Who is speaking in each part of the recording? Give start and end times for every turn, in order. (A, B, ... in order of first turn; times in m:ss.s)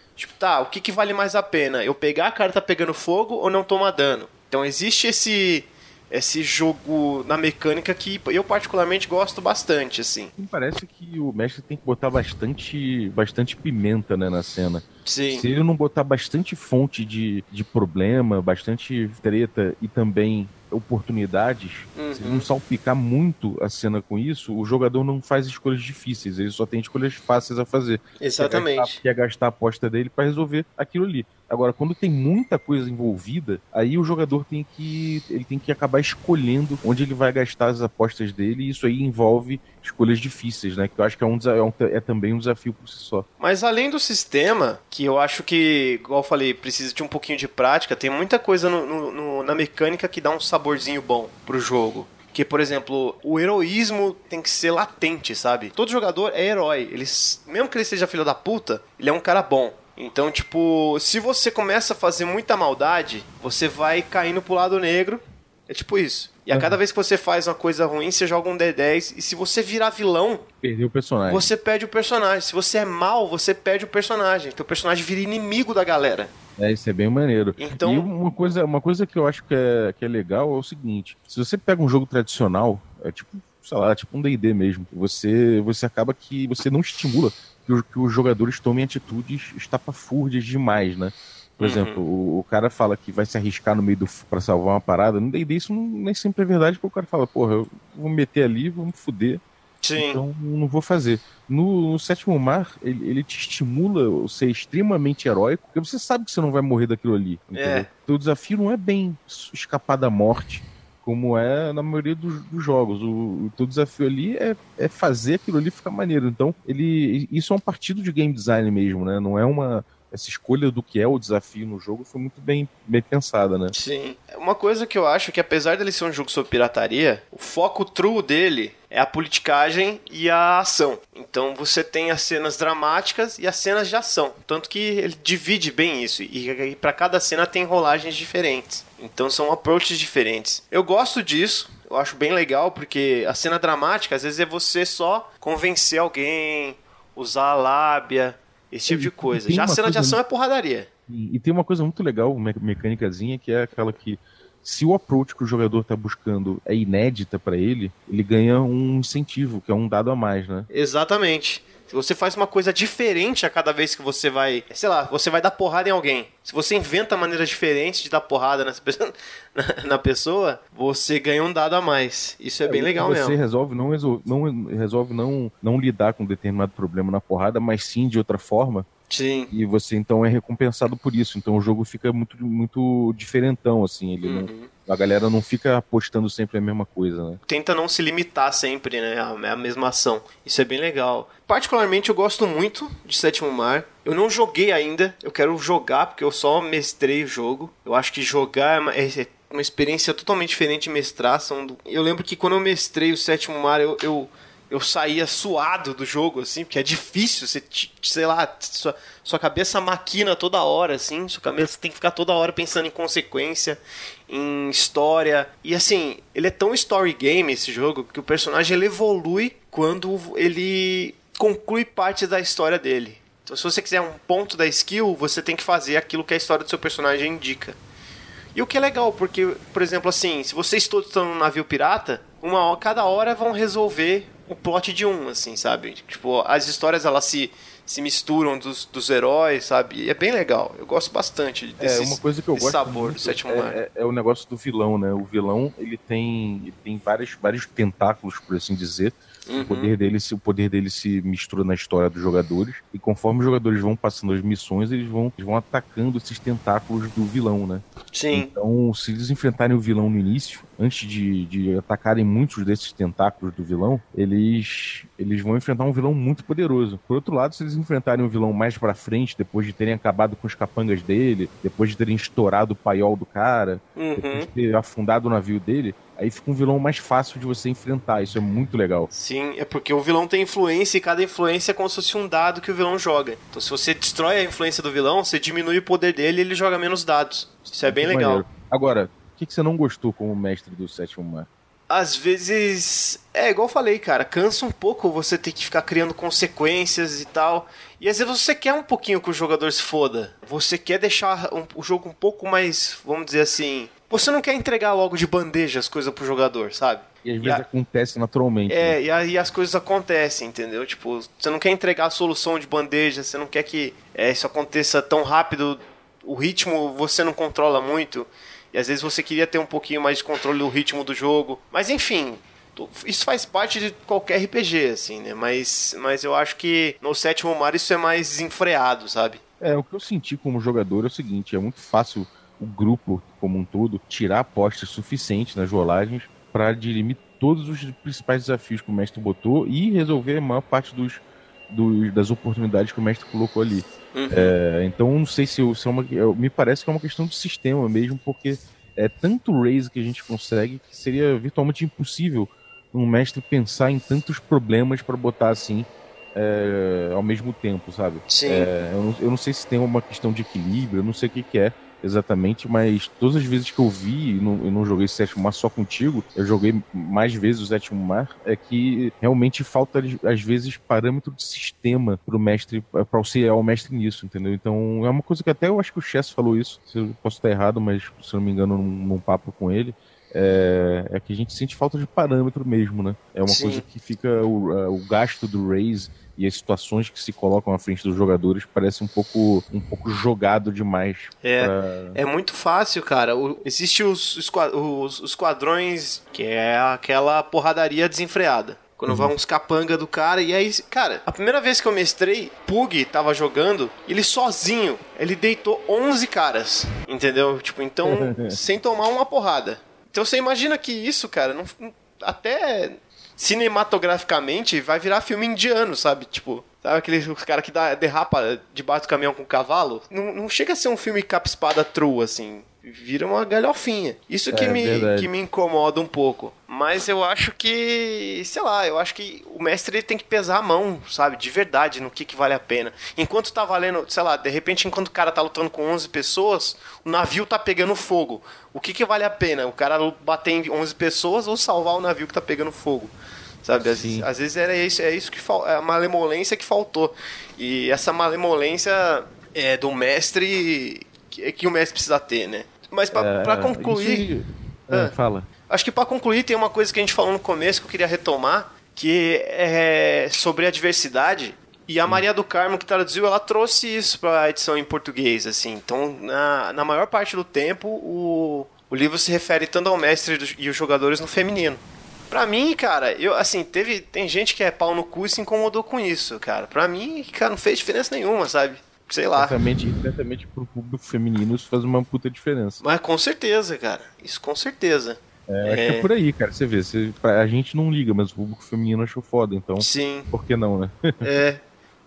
0:00.2-0:10.3 A
0:10.4-0:43.2 B
0:15.0-0:15.5 A
0:22.0-0:22.5 A
0:28.2-0:29.0 A
0:43.4-1:10.4 A
1:06.5-1:06.8 B
1:10.6-1:11.5 B
1:11.3-1:16.3 A
1:16.6-1:39.4 B
1:17.6-1:18.1 A
1:31.6-1:32.0 A
1:39.8-1:40.2 A
1:40.0-2:03.7 B
1:47.5-1:47.9 A
2:03.7-2:30.9 A
2:28.9-2:30.2 B
2:31.1-2:40.7 B
2:40.7-2:53.4 A
2:52.6-2:58.9 B
2:59.1-2:59.5 A
2:59.5-3:07.4 B
3:04.2-3:04.7 A
3:07.5-3:47.8 A
3:48.5-4:03.8 A
4:01.8-4:39.1 B
4:09.5-4:09.9 A
4:18.1-4:18.5 A
4:34.0-4:34.5 A
4:39.1-4:48.4 A
4:47.8-4:51.5 B
4:51.9-5:07.6 A
5:07.2-5:09.0 B
5:08.7-5:29.4 A
5:29.6-6:32.2 B
5:44.1-5:44.6 A
5:58.3-5:58.7 A
6:23.5-6:23.8 A
6:31.4-7:23.1 A
6:39.1-6:39.3 B
6:48.1-6:48.5 B
7:04.5-7:05.3 B
7:23.6-7:34.3 A
7:23.8-7:24.3 B
7:33.1-7:35.5 B
7:35.7-7:59.7 A
7:59.3-8:02.8 B
8:02.8-8:06.1 A
8:05.5-8:11.2 B
8:09.8-8:10.3 A
8:11.2-8:11.6 A